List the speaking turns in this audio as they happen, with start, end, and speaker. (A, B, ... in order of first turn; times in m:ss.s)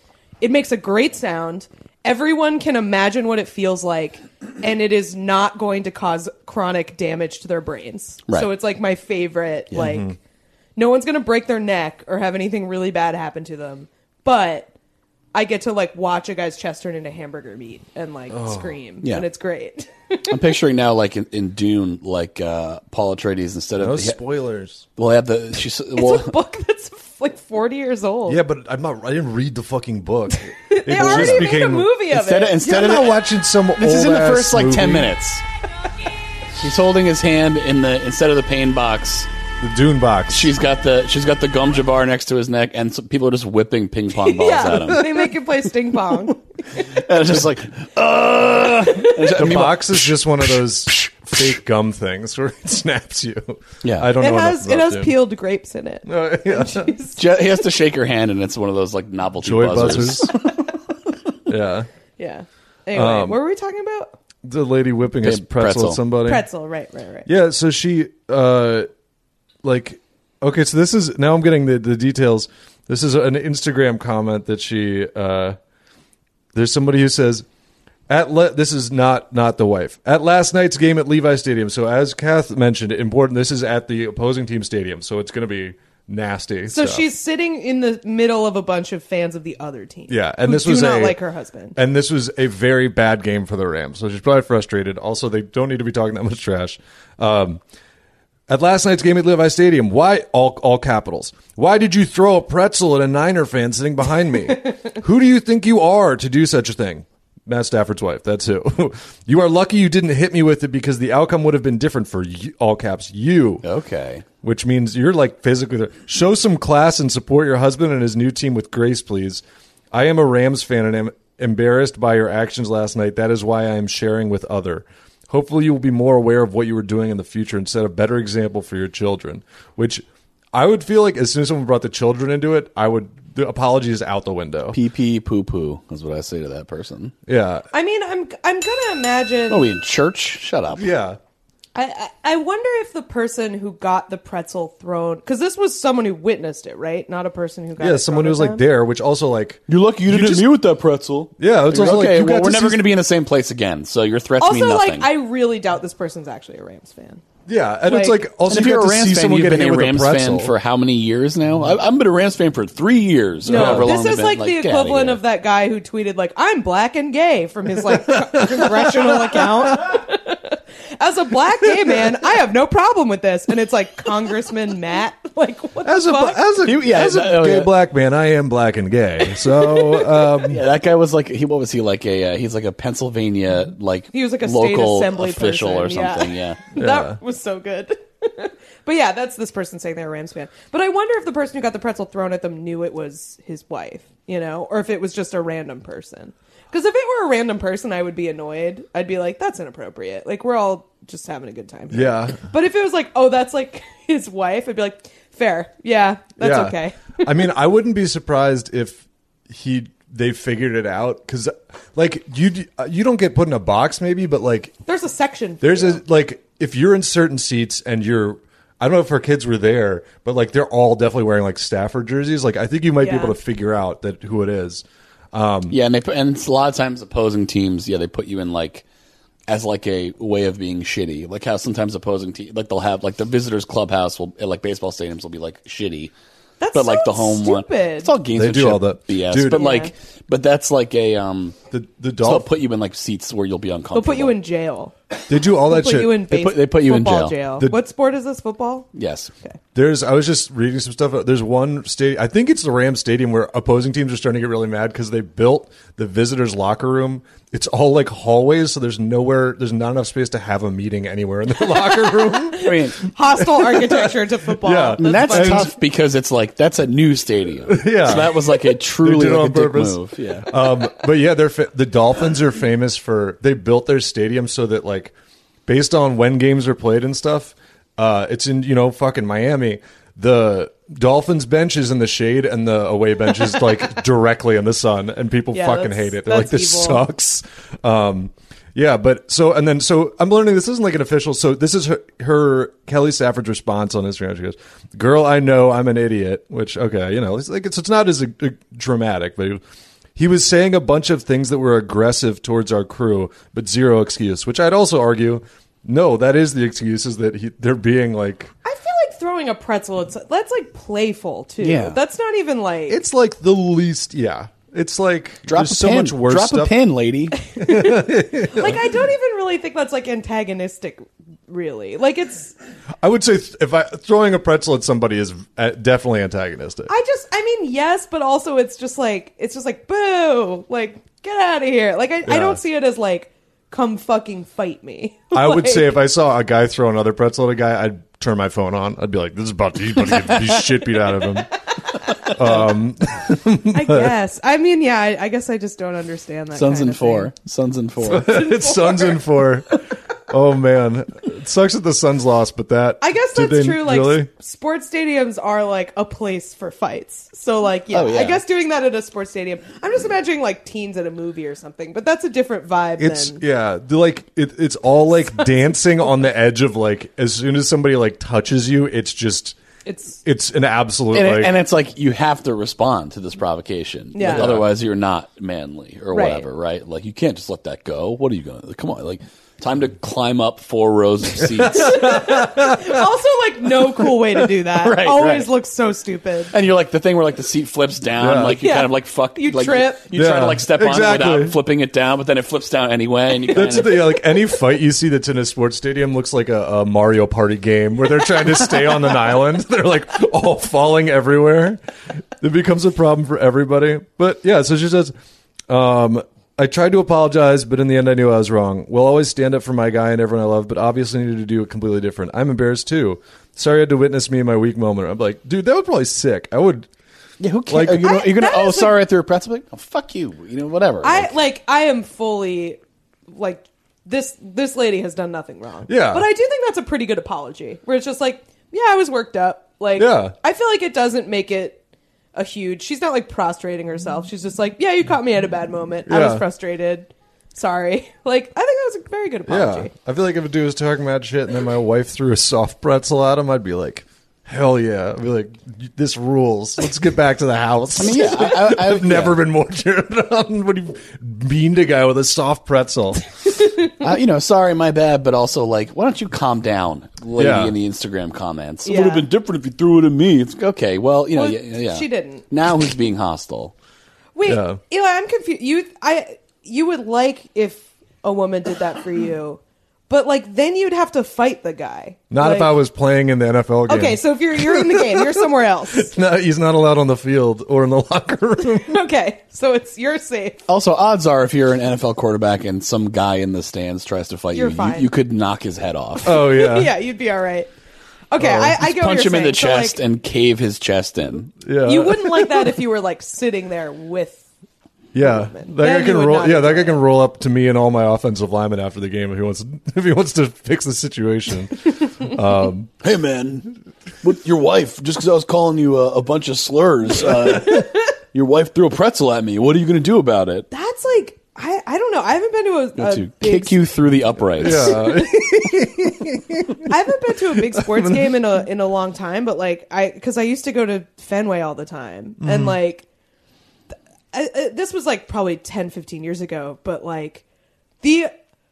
0:00.4-0:10.2 A
0:09.8-0:10.2 B
0:10.8-0:14.7 A
0:15.3-0:20.4 A
0:18.3-0:18.8 B
0:20.3-0:24.2 C
0:23.8-0:24.8 B
0:25.0-0:26.4 C
0:25.9-0:28.4 A
0:28.3-0:31.9 B
0:30.4-0:32.6 A
0:31.1-0:31.4 C
0:32.1-0:35.4 C
0:32.6-0:35.1 B
0:36.6-0:39.3 C
0:39.6-0:40.5 B
0:40.3-0:45.1 C
0:44.3-0:46.4 A
0:46.8-0:51.3 C
0:49.2-0:55.2 B
0:53.8-0:54.1 C
0:54.2-0:57.2 A
0:56.0-0:56.9 B
0:57.2-1:00.4 C
0:59.4-1:00.4 B
1:01.5-1:01.9 B
1:02.2-1:04.2 A
1:02.9-1:03.4 B
1:04.4-1:06.5 B
1:05.2-1:06.0 C
1:06.2-1:07.3 A
1:07.3-1:08.9 B
1:09.6-1:15.6 B
1:16.5-1:17.4 B
1:18.1-1:27.0 B
1:26.7-1:31.8 A
1:30.1-1:31.2 B
1:31.8-1:37.6 B
1:38.5-1:53.6 B
1:53.6-1:54.2 C
1:54.4-2:14.8 B
2:14.7-2:17.1 C
2:17.3-2:17.7 B
2:17.7-2:19.7 A
2:19.5-2:20.9 C
2:20.8-2:21.2 B
2:21.8-2:28.6 A
2:27.8-2:30.5 B
2:29.7-2:35.1 C
2:31.4-2:32.8 B
2:34.4-2:37.2 A
2:37.5-2:40.5 B
2:37.9-2:38.2 A
2:38.5-2:45.2 C
2:43.5-2:56.4 A
2:43.5-2:43.9 B
2:48.3-2:48.9 B
2:55.8-3:00.6 B
2:56.6-2:57.7 C
3:00.4-3:06.6 C
3:04.1-3:27.3 A
3:06.8-3:07.2 B
3:21.9-3:22.4 B
3:26.4-3:34.8 B
3:34.9-3:36.0 A
3:35.6-3:45.8 B
3:43.0-3:43.4 A
3:45.7-3:48.8 C
3:49.5-3:56.1 C
3:56.6-3:58.1 A
3:56.7-4:01.6 C
3:58.3-3:59.6 B
3:59.5-3:59.9 A
4:01.7-4:02.5 B
4:02.2-4:04.4 C
4:03.9-4:05.0 A
4:05.3-4:06.3 B
4:05.7-4:08.9 A
4:06.3-4:07.4 C
4:08.9-4:09.3 C
4:09.8-4:22.8 B
4:21.6-4:25.7 A
4:22.6-4:23.0 C
4:23.4-4:25.7 B
4:25.0-4:30.6 C
4:27.7-4:35.1 B
4:35.7-4:59.6 B
4:45.5-4:47.0 A
5:00.2-5:08.5 B
5:08.6-5:13.0 A
5:11.6-5:12.0 C
5:12.9-5:16.8 B
5:15.5-5:17.4 C
5:17.4-5:22.6 A
5:17.6-5:18.9 B
5:23.0-5:26.9 B
5:26.9-5:36.0 A
5:32.2-5:32.6 B
5:35.3-5:41.5 B
5:42.2-5:44.2 B
5:43.7-5:47.3 A
5:46.5-5:48.4 C
5:48.0-5:54.3 B
5:48.2-5:49.2 A
5:53.0-6:03.4 A
5:57.9-5:58.4 C
6:03.0-6:09.6 B
6:09.9-6:10.2 A
6:10.2-6:11.5 B
6:11.1-6:22.2 C
6:14.1-6:14.5 A
6:14.2-6:14.7 B
6:16.1-6:16.4 A
6:21.5-6:22.9 B
6:21.8-6:26.5 A
6:24.7-6:25.5 C
6:26.5-6:34.1 C
6:28.2-6:28.6 B
6:28.5-6:30.1 A
6:30.1-6:31.6 B
6:33.5-6:41.8 B
6:42.4-6:45.1 B
6:45.7-6:56.9 B
6:57.4-7:01.4 C
6:57.7-6:58.1 B
6:58.0-6:59.0 A
7:01.0-7:11.8 A
7:05.9-7:06.3 B
7:10.0-7:10.4 B
7:12.3-7:19.9 A
7:16.1-7:16.4 B
7:19.5-7:33.2 B
7:28.0-7:29.4 C
7:33.9-7:43.7 C
7:37.4-7:37.8 B
7:38.8-7:39.3 A
7:41.4-7:42.5 A
7:44.4-7:52.8 A
7:44.4-7:44.8 B
7:52.3-7:58.9 B
7:53.9-7:56.1 A
7:58.8-8:00.6 A
8:00.7-8:06.4 C
8:04.5-8:05.1 A
8:06.2-8:06.9 B
8:06.3-8:07.7 A
8:08.3-8:10.0 A
8:08.4-8:11.6 C
8:11.6-8:12.7 B
8:11.8-8:14.4 A
8:15.1-8:22.9 B
8:15.2-8:17.0 A
8:23.0-8:30.7 C
8:30.7-8:33.8 A
8:33.0-8:35.1 C
8:34.6-8:38.4 B
8:36.8-8:43.0 A
8:42.4-8:42.8 B
8:44.3-8:47.4 A
8:48.0-8:48.3 A